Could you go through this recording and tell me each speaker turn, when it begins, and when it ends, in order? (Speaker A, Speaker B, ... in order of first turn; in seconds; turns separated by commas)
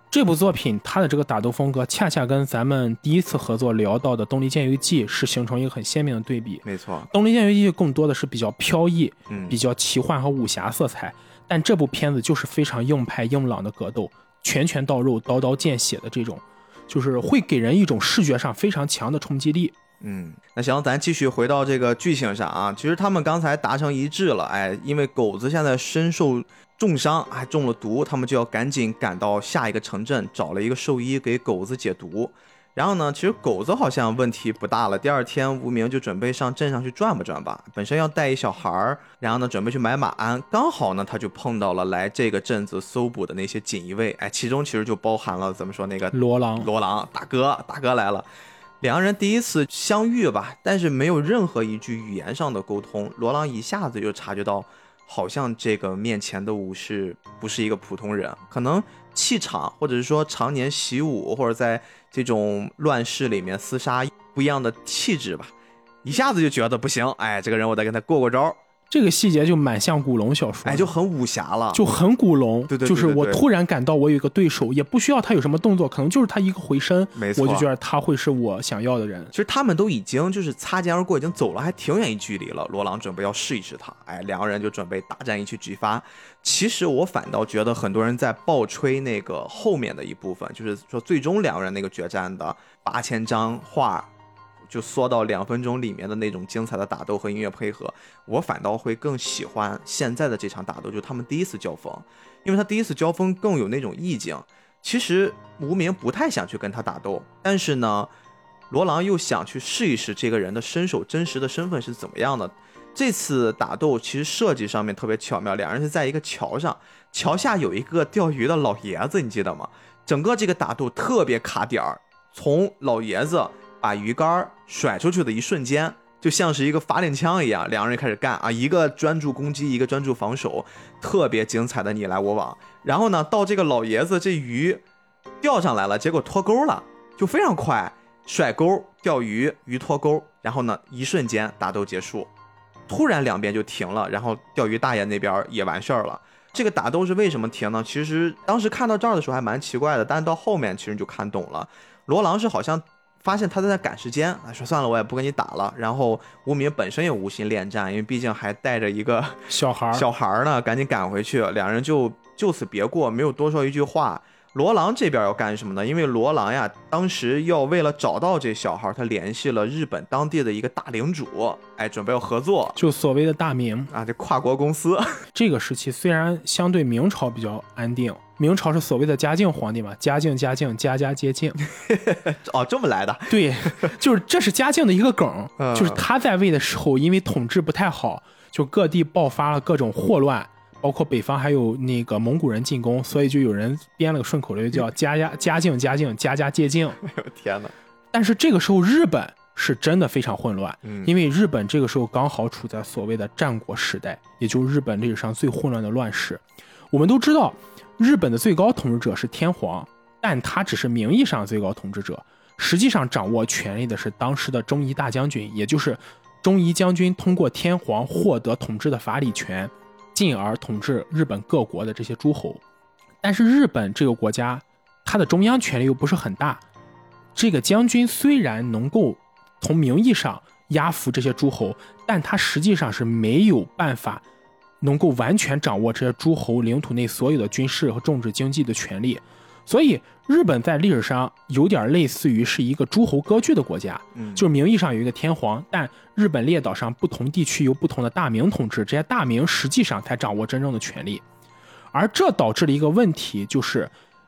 Speaker A: 0.1-19.7, Speaker B: 6.7-7.1, Speaker B: 9.3-9.6, Speaker B: 20.0-48.3, Speaker A: 46.1-46.7, Speaker B: 48.8-65.5, Speaker B: 66.0-68.6, Speaker A: 68.9-70.9, Speaker B: 70.7-71.8, Speaker A: 71.7-79.3, Speaker B: 72.7-73.4, Speaker B: 77.2-77.7, Speaker B: 79.3-94.1, Speaker B: 94.7-108.1, Speaker B: 108.7-134.8, Speaker B: 135.4-142.3, Speaker B: 142.9-172.8, Speaker A: 159.5-160.1, Speaker A: 172.8-173.9, Speaker B: 173.9-175.2, Speaker A: 175.3-181.6, Speaker B: 181.8-183.9, Speaker A: 183.3-197.0, Speaker B: 185.6-186.0, Speaker B: 197.0-197.7, Speaker A: 198.1-222.6, Speaker B: 200.8-201.1, Speaker A: 223.2-226.6, Speaker A: 227.3-234.2, Speaker A: 234.8-251.2, Speaker B: 244.2-244.5, Speaker A: 251.9-253.9